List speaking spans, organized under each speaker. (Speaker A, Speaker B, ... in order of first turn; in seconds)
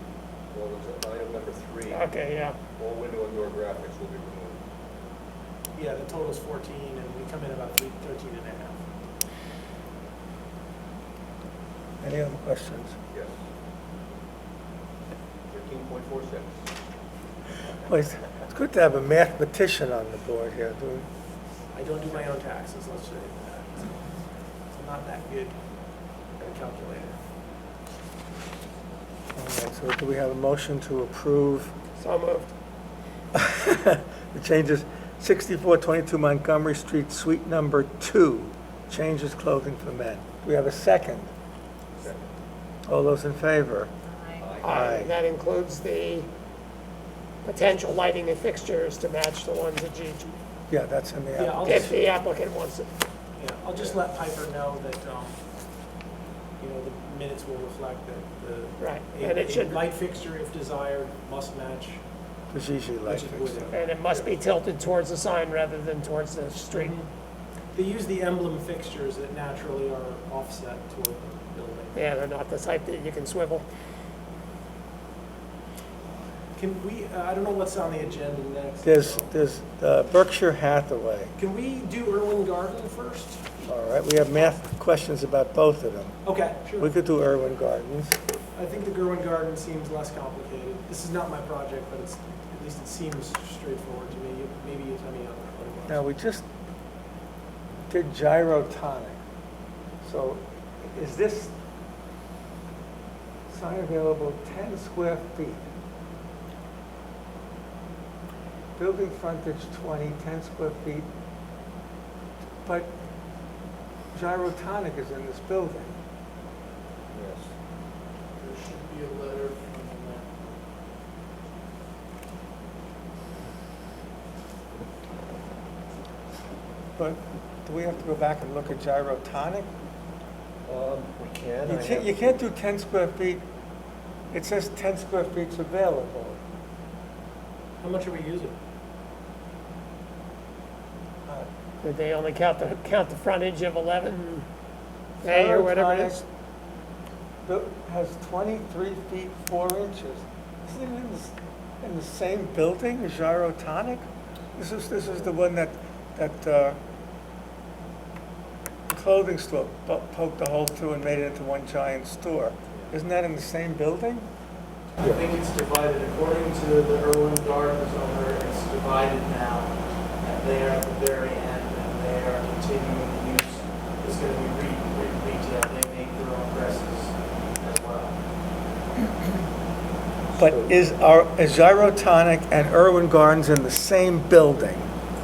Speaker A: 0.5-2.0, 2.8-4.6, 15.5-16.5, 42.0-42.3, 44.4-44.7, 117.1-117.5, 130.7-132.3, 180.4-180.8
Speaker B: 1.9-2.6, 32.0-32.5, 44.6-46.3, 47.5-50.4, 51.6-52.9, 58.8-59.8, 63.7-67.0, 72.0-73.7, 141.8-144.5, 145.2-146.2
Speaker C: 5.8-8.8, 21.7-24.0, 24.7-25.6, 26.4-27.2, 51.4-52.0, 53.4-55.3, 56.6-62.0, 63.0-63.8, 66.7-67.1, 67.8-72.0, 76.6-79.3, 81.4-83.5, 86.2-86.9, 88.5-96.0, 137.8-138.6
Speaker D: 12.0-13.0, 17.9-21.1, 29.4-31.8, 33.3-41.3, 42.9-43.9, 44.6-45.1, 50.7-51.8, 62.5-63.6, 78.8-81.3, 83.7-86.2, 86.8-88.2, 95.9-96.5, 97.9-99.2, 100.0-101.5, 103.5-105.7, 108.8-111.1, 112.7-112.9, 114.1-116.0, 127.0-129.7, 131.7-133.4, 134.3-136.4, 145.2-146.2, 147.4-156.8, 158.9-164.3, 180.4-184.9
Speaker E: 118.4-120.4, 165.0-178.2